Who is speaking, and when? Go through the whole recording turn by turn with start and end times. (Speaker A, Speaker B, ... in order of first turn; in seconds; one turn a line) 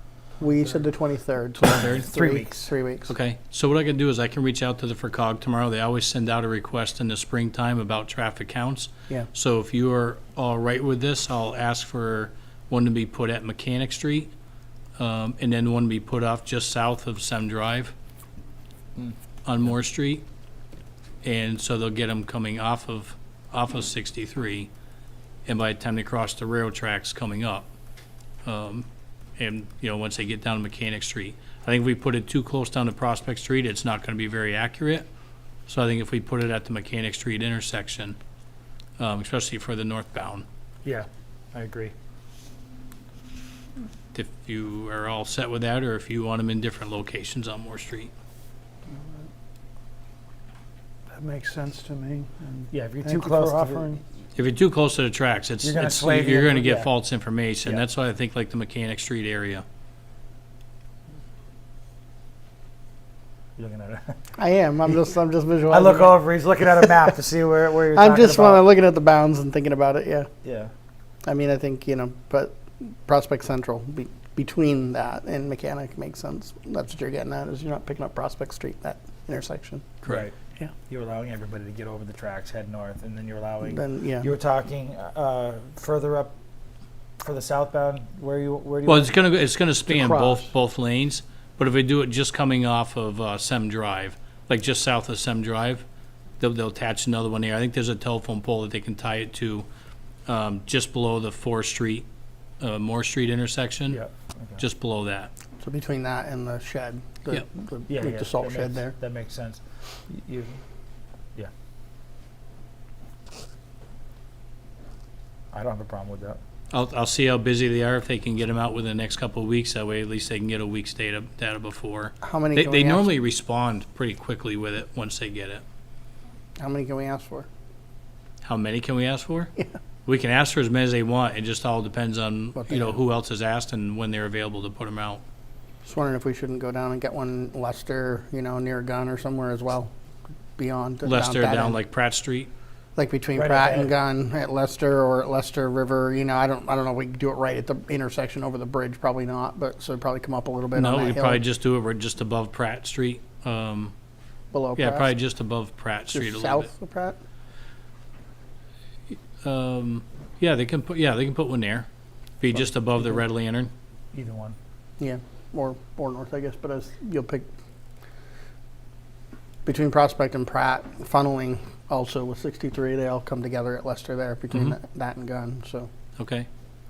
Speaker A: 0.4-3.1
Speaker B: 1.6-2.1
Speaker C: 1.9-2.6
Speaker B: 3.1-14.3
Speaker B: 15.0-17.9
Speaker B: 19.4-20.2
Speaker B: 21.2-24.7
Speaker B: 25.4-27.7
Speaker B: 28.4-28.9
Speaker B: 29.4-35.1
Speaker B: 35.7-38.2
Speaker B: 39.0-40.5
Speaker C: 40.8-41.9
Speaker B: 44.1-48.1
Speaker A: 51.1-54.0
Speaker C: 52.7-53.9
Speaker B: 54.4-59.6
Speaker C: 55.6-56.9
Speaker C: 63.6-64.1
Speaker A: 64.4-66.2
Speaker C: 65.7-68.6
Speaker A: 67.9-70.3
Speaker C: 70.4-70.7
Speaker A: 71.2-79.9
Speaker C: 80.0-80.3
Speaker C: 80.9-86.3
Speaker A: 83.7-84.3
Speaker C: 87.2-89.1
Speaker B: 88.8-95.8
Speaker B: 96.4-99.7
Speaker B: 100.3-102.0
Speaker B: 102.6-104.0
Speaker C: 103.9-104.6
Speaker B: 104.6-105.3
Speaker A: 105.6-108.9
Speaker C: 107.9-110.6
Speaker C: 115.5-116.4
Speaker B: 116.7-125.6
Speaker A: 122.2-123.1
Speaker A: 126.6-127.5
Speaker B: 128.4-129.5
Speaker B: 130.1-135.2
Speaker A: 132.6-132.9
Speaker A: 135.8-139.9
Speaker A: 140.6-141.8
Speaker B: 141.0-142.5
Speaker A: 142.9-151.4
Speaker C: 143.3-143.9
Speaker B: 150.7-153.9
Speaker A: 154.5-155.1
Speaker B: 154.8-156.7
Speaker A: 156.1-157.2
Speaker B: 159.1-161.9
Speaker B: 162.4-163.7
Speaker C: 164.1-164.6
Speaker A: 165.0-167.5
Speaker A: 169.7-175.9
Speaker B: 176.2-176.5